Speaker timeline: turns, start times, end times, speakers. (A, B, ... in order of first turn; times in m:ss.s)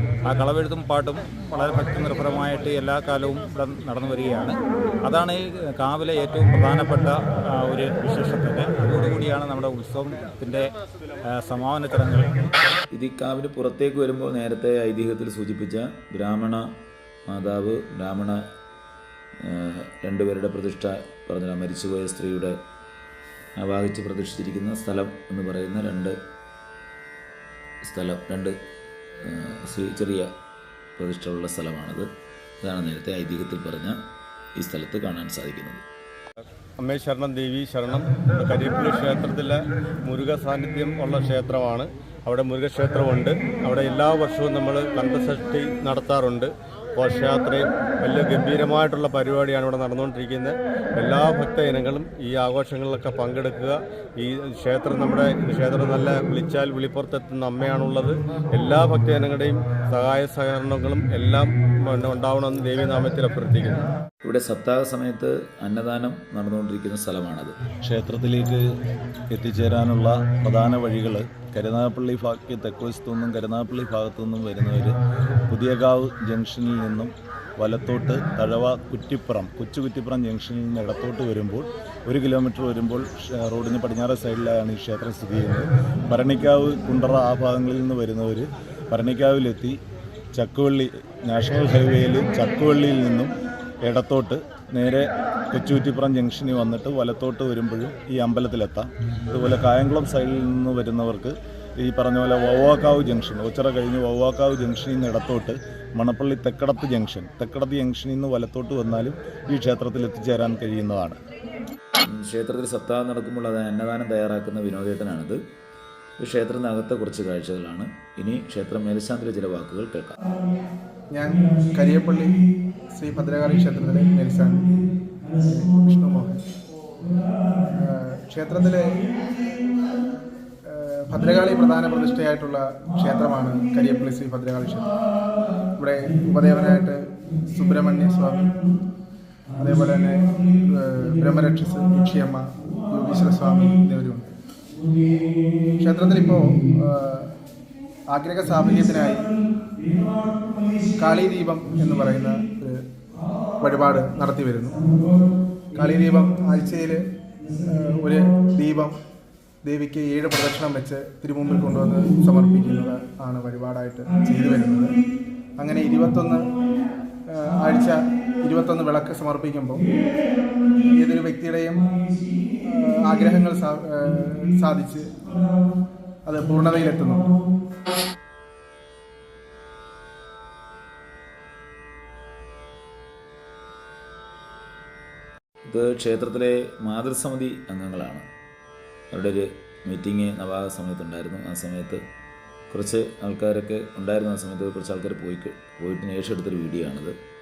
0:00.2-0:10.7 A
0:11.3-0:12.3 A
0:12.9-0:16.6 B
0:17.3-0:18.4 B
0:19.4-0:22.5 B
0:23.6-0:26.1 B
0:27.8-0:28.5 B
0:29.2-0:30.3 B
0:31.0-0:32.1 B
0:32.6-0:34.0 B
0:34.6-0:35.8 B
0:36.8-1:03.9 C
1:04.2-1:07.5 B
1:07.8-1:08.6 D
1:09.3-1:14.9 D
1:15.5-1:29.8 D
1:30.3-1:33.3 D
1:33.8-1:51.2 D
1:52.1-1:55.4 B
1:56.2-2:00.2 B
2:01.1-2:02.3 E
2:02.9-2:04.7 E
2:05.4-2:06.4 E
2:07.8-2:08.9 E
2:10.7-2:14.9 E
2:15.8-2:17.0 E
2:17.5-2:18.6 E
2:19.6-2:24.3 E
2:25.8-2:27.3 E
2:28.1-2:29.3 E
2:31.0-2:32.8 E
2:33.6-2:34.9 E
2:35.7-2:37.0 E
2:37.7-2:39.0 E
2:39.6-2:45.0 E
2:45.6-2:46.4 E
2:47.3-2:49.8 E
2:50.8-2:52.0 E
2:52.6-2:55.3 E
2:56.2-2:57.3 E
3:05.7-3:08.2 B
3:09.1-3:12.0 B
3:12.7-3:17.1 B